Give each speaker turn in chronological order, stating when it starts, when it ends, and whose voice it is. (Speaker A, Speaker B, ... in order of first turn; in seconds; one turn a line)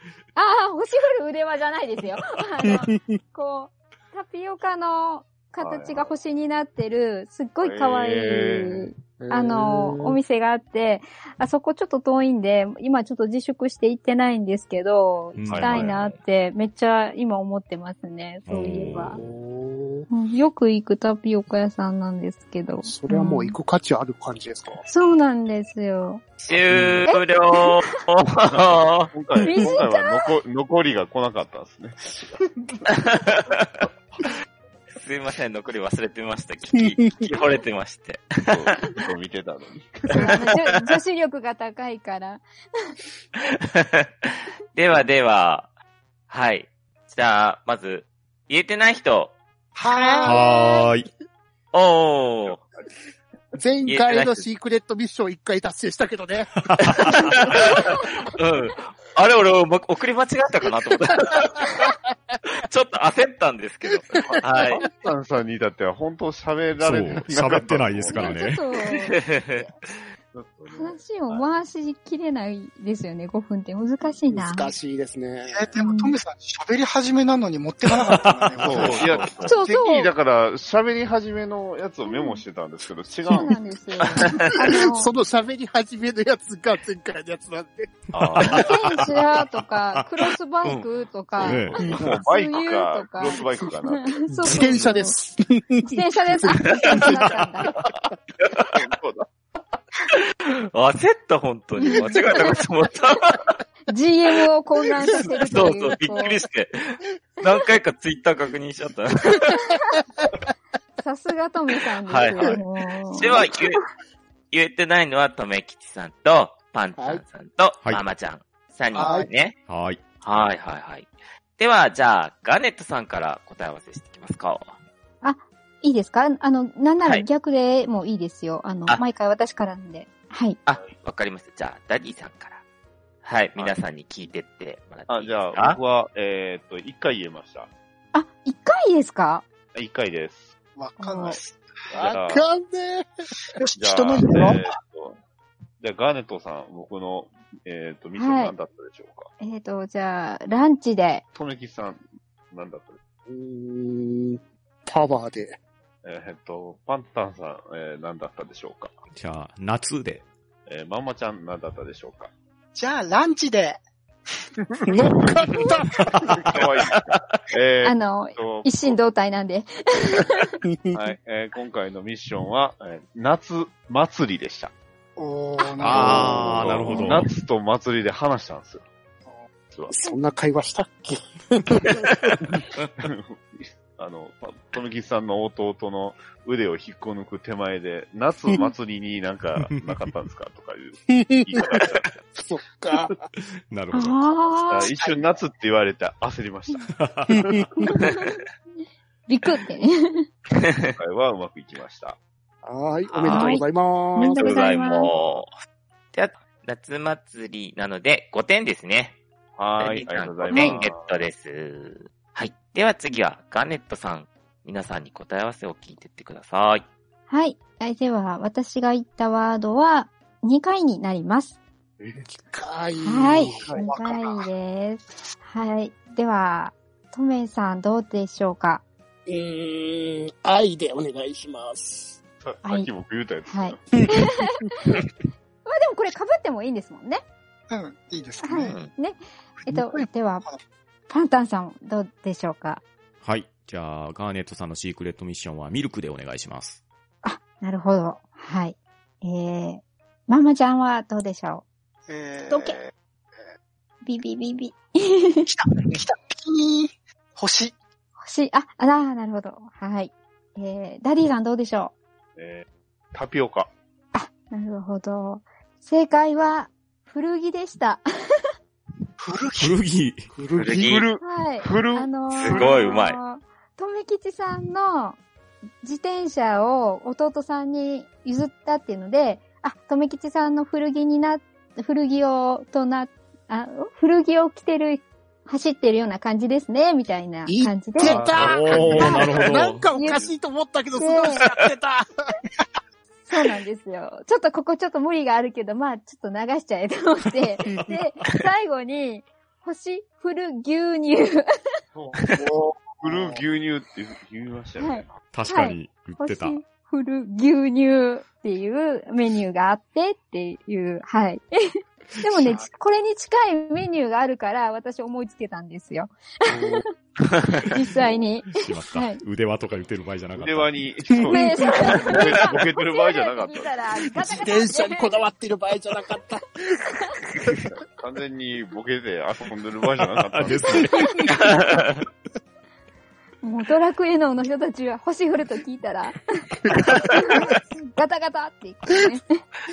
Speaker A: 0.3-19.2
Speaker B: 2.6-3.2
Speaker C: 5.6-6.2
Speaker C: 7.6-8.9
Speaker B: 9.2-10.2
Speaker D: 15.3-15.9
Speaker C: 15.4-16.1
Speaker D: 18.5-19.2
Speaker B: 18.9-20.1
Speaker A: 20.1-23.6
Speaker B: 22.8-24.8
Speaker A: 24.9-26.2
Speaker E: 26.4-29.1
Speaker C: 26.7-27.0
Speaker A: 27.1-27.8
Speaker C: 29.1-32.8
Speaker A: 29.4-30.3
Speaker E: 32.9-33.9
Speaker E: 34.9-39.0
Speaker B: 36.8-37.1
Speaker C: 38.5-40.3
Speaker A: 40.1-42.4
Speaker E: 43.4-45.7
Speaker E: 46.3-49.4
Speaker F: 49.8-50.5
Speaker B: 49.9-50.4
Speaker A: 50.0-50.3
Speaker D: 50.2-51.1
Speaker E: 51.7-52.6
Speaker B: 53.5-57.3
Speaker E: 53.9-54.5
Speaker D: 56.8-57.1
Speaker E: 56.8-61.9
Speaker E: 62.5-64.8
Speaker B: 64.1-64.4
Speaker C: 64.2-68.4
Speaker D: 66.8-68.6
Speaker A: 68.1-69.2
Speaker E: 69.0-69.7
Speaker C: 70.3-71.5
Speaker A: 70.7-74.7
Speaker B: 74.3-75.7
Speaker F: 75.5-79.8
Speaker A: 75.8-76.2
Speaker D: 78.1-79.0
Speaker C: 78.6-83.6
Speaker A: 79.4-80.1
Speaker A: 82.0-82.4
Speaker A: 83.3-85.1
Speaker B: 84.2-88.1
Speaker C: 88.1-88.7
Speaker D: 88.2-89.3
Speaker A: 88.5-95.1
Speaker D: 89.9-90.9
Speaker D: 91.4-92.0
Speaker C: 91.4-94.2
Speaker B: 94.3-97.5
Speaker A: 95.8-97.7
Speaker E: 98.4-98.7
Speaker C: 98.7-99.3
Speaker E: 100.1-103.6
Speaker A: 101.8-102.6
Speaker A: 103.9-106.4
Speaker E: 105.1-109.5
Speaker A: 109.5-110.0
Speaker A: 111.0-113.5
Speaker E: 112.1-112.6
Speaker E: 113.1-113.8
Speaker E: 114.5-119.6
Speaker B: 117.0-117.2
Speaker B: 118.9-119.3
Speaker D: 119.7-120.0
Speaker E: 120.2-124.8
Speaker A: 125.2-130.6
Speaker E: 130.7-132.6
Speaker E: 133.2-135.8
Speaker C: 135.1-137.7
Speaker A: 138.1-139.4
Speaker C: 139.7-140.5
Speaker F: 140.8-141.9
Speaker A: 141.0-141.4
Speaker B: 141.9-143.1
Speaker C: 142.0-142.5
Speaker F: 143.6-144.7
Speaker C: 143.8-145.2
Speaker C: 145.8-149.3
Speaker A: 148.1-148.5
Speaker A: 149.4-151.2
Speaker C: 151.3-153.0
Speaker B: 153.3-155.6
Speaker C: 156.0-158.9
Speaker D: 159.1-160.2
Speaker C: 160.7-162.3
Speaker F: 162.7-163.8
Speaker C: 164.7-165.3
Speaker B: 164.9-166.0
Speaker C: 166.3-169.0
Speaker A: 167.8-170.5
Speaker B: 170.7-171.0
Speaker C: 170.9-174.7
Speaker F: 175.2-176.9
Speaker D: 175.8-177.3
Speaker C: 175.9-178.8
Speaker A: 176.9-177.2
Speaker C: 179.7-180.0
Speaker B: 179.9-182.0
Speaker C: 183.0-192.1
Speaker D: 189.6-189.9
Speaker B: 191.1-193.3
Speaker D: 193.7-194.5
Speaker A: 193.9-194.9
Speaker C: 194.7-196.9
Speaker D: 197.0-197.5
Speaker B: 197.3-197.7
Speaker A: 197.8-198.3
Speaker A: 199.3-200.2
Speaker E: 200.6-200.9
Speaker C: 200.9-202.2
Speaker B: 202.6-204.5
Speaker E: 203.1-203.7
Speaker A: 203.2-203.6
Speaker A: 204.2-205.1
Speaker E: 204.3-205.5
Speaker E: 206.1-209.2
Speaker C: 209.6-211.1
Speaker E: 209.8-216.8
Speaker A: 217.3-221.6
Speaker C: 222.0-222.2
Speaker B: 222.3-223.7
Speaker A: 223.0-228.8
Speaker F: 223.7-224.5
Speaker B: 229.3-232.2
Speaker C: 232.4-233.8
Speaker A: 232.6-232.9
Speaker A: 233.4-235.0
Speaker B: 233.9-234.9
Speaker A: 235.6-237.2
Speaker F: 237.7-238.8
Speaker A: 238.4-240.4
Speaker E: 238.6-238.9
Speaker F: 239.6-240.6
Speaker A: 241.1-242.8
Speaker D: 243.2-246.8
Speaker A: 247.2-251.6
Speaker F: 252.1-252.9
Speaker A: 252.5-252.8
Speaker A: 254.0-255.4
Speaker F: 255.4-257.8
Speaker A: 258.2-261.9
Speaker C: 262.4-263.7
Speaker A: 264.1-268.0
Speaker F: 269.2-269.8
Speaker D: 269.6-270.3
Speaker B: 270.3-270.9
Speaker E: 270.6-271.0
Speaker C: 270.7-272.9
Speaker A: 271.2-275.2
Speaker E: 272.3-273.2
Speaker A: 275.8-288.2
Speaker B: 287.4-292.4
Speaker C: 288.0-290.3
Speaker D: 288.4-289.9
Speaker A: 288.9-289.3
Speaker A: 289.9-290.2
Speaker A: 290.9-291.4
Speaker A: 293.3-301.6
Speaker C: 301.9-305.2
Speaker F: 302.4-303.2
Speaker A: 304.8-311.5
Speaker D: 305.3-306.6
Speaker A: 312.2-316.8
Speaker B: 316.5-316.8
Speaker A: 317.7-319.2
Speaker D: 318.5-320.7
Speaker C: 320.4-323.9
Speaker B: 321.1-322.1
Speaker A: 321.3-325.2
Speaker B: 324.1-327.7
Speaker C: 327.7-330.9
Speaker D: 330.3-331.4
Speaker E: 331.4-331.8
Speaker A: 333.4-339.4